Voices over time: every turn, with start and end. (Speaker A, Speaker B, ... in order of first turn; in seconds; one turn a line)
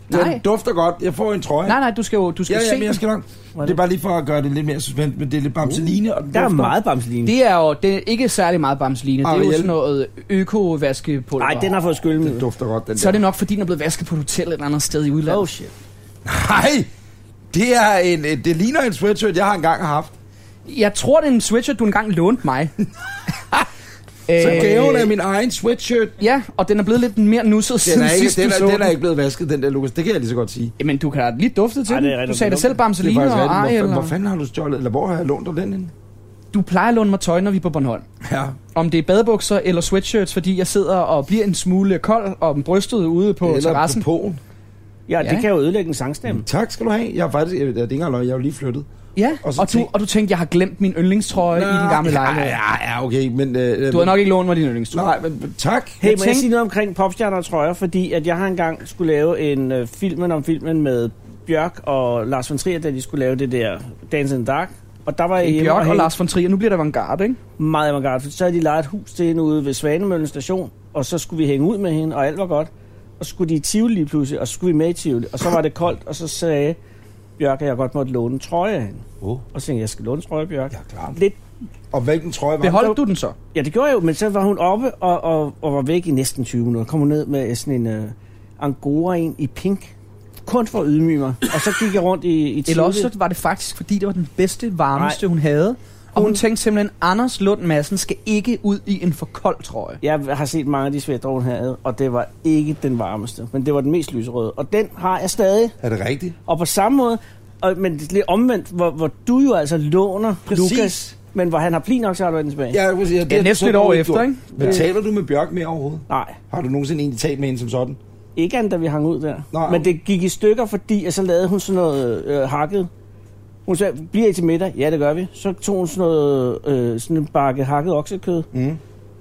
Speaker A: 0.1-0.4
Speaker B: 0.1-1.8
Speaker A: 1.6-3.0
Speaker B: 2.5-6.7
Speaker C: 5.7-7.3
Speaker A: 7.2-11.8
Speaker B: 9.2-9.7
Speaker C: 11.4-12.4
Speaker B: 12.2-13.2
Speaker A: 12.9-15.4
Speaker C: 15.3-15.7
Speaker B: 16.2-16.9
Speaker B: 17.5-20.1
Speaker A: 20.7-22.7
Speaker A: 24.3-25.0
Speaker C: 24.4-25.1
Speaker B: 24.4-26.2
Speaker A: 26.2-28.9
Speaker B: 27.8-30.7
Speaker A: 30.8-34.1
Speaker C: 31.9-32.8
Speaker B: 33.0-35.9
Speaker A: 36.5-38.0
Speaker B: 38.2-38.6
Speaker A: 38.7-44.0
Speaker B: 43.4-44.4
Speaker C: 45.1-46.5
Speaker A: 45.2-45.5
Speaker B: 46.3-48.9
Speaker A: 49.2-52.6
Speaker B: 49.4-49.9
Speaker B: 51.4-54.3
Speaker A: 53.9-55.1
Speaker B: 54.9-56.0
Speaker A: 56.0-56.5
Speaker C: 56.0-66.1
Speaker A: 65.4-67.4
Speaker C: 67.6-76.8
Speaker C: 77.4-81.4
Speaker B: 80.7-81.2
Speaker B: 81.9-82.9
Speaker A: 82.6-83.4
Speaker C: 83.5-89.9
Speaker C: 90.5-93.1
Speaker A: 92.7-100.0
Speaker C: 95.0-95.2
Speaker C: 96.2-96.4
Speaker C: 100.0-105.7
Speaker B: 105.8-106.4
Speaker C: 106.5-112.8
Speaker B: 110.5-111.1
Speaker B: 112.7-118.0
Speaker A: 113.3-114.8
Speaker C: 116.1-116.4
Speaker C: 118.4-122.9
Speaker B: 119.5-119.9
Speaker C: 123.7-128.5
Speaker B: 128.5-128.8